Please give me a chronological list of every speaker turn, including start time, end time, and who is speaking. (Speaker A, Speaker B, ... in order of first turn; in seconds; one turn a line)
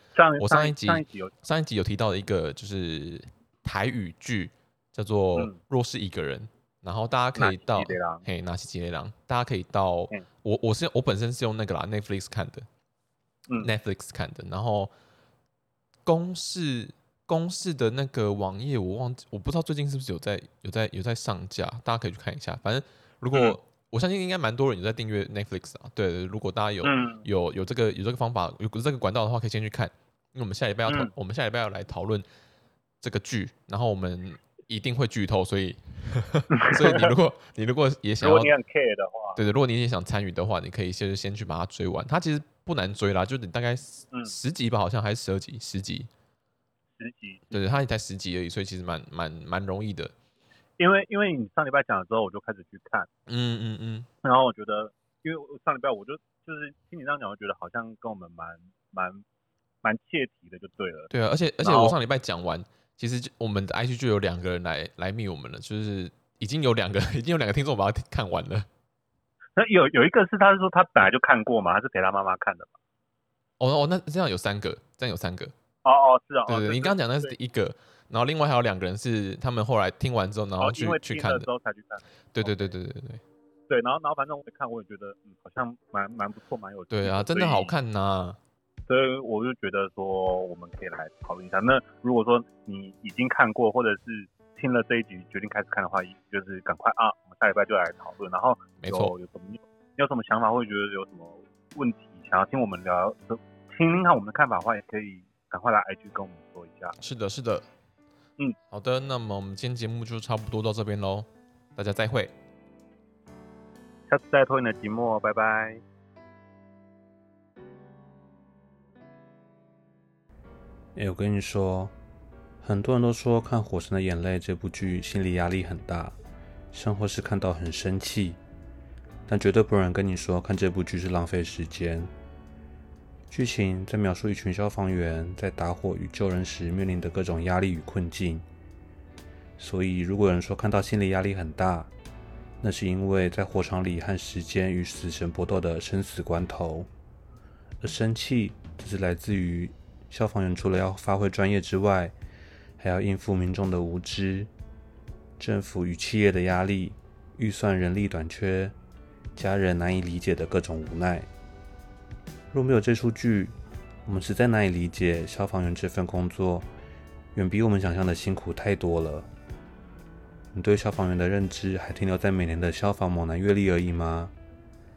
Speaker A: 0.1-1.3
Speaker B: 0.4-12.7
Speaker A: 7.3-8.3
Speaker B: 13.6-14.9
Speaker B: 16.1-32.3
Speaker A: 23.3-23.6
Speaker A: 26.8-27.3
Speaker B: 33.0-38.5
Speaker A: 36.5-37.1
Speaker A: 38.2-39.4
Speaker B: 39.4-46.1
Speaker A: 44.1-44.4
Speaker A: 47.0-47.8
Speaker B: 47.5-50.1
Speaker A: 50.8-53.1
Speaker B: 53.3-54.1
Speaker A: 54.2-59.2
Speaker A: 59.8-61.1
Speaker B: 61.1-68.7
Speaker A: 61.6-62.0
Speaker A: 69.6-72.7
Speaker B: 73.6-75.5
Speaker A: 75.8-77.3
Speaker B: 76.5-81.5
Speaker A: 80.6-82.7
Speaker B: 82.3-83.2
Speaker A: 83.7-87.7
Speaker B: 86.9-88.4
Speaker A: 88.9-107.0
Speaker B: 98.8-99.1
Speaker B: 107.0-107.7
Speaker B: 108.7-112.3
Speaker A: 114.1-115.8
Speaker C: 121.0-121.9
Speaker C: 122.6-126.2
Speaker C: 126.7-128.4
Speaker C: 129.3-132.1
Speaker C: 133.3-138.4
Speaker C: 139.6-141.9
Speaker C: 142.6-146.9
Speaker C: 147.8-152.2
Speaker C: 152.8-154.5
Speaker C: 155.4-158.8
Speaker C: 159.4-161.3
Speaker C: 162.5-163.5
Speaker C: 164.1-166.7
Speaker C: 167.3-169.3
Speaker C: 170.5-174.3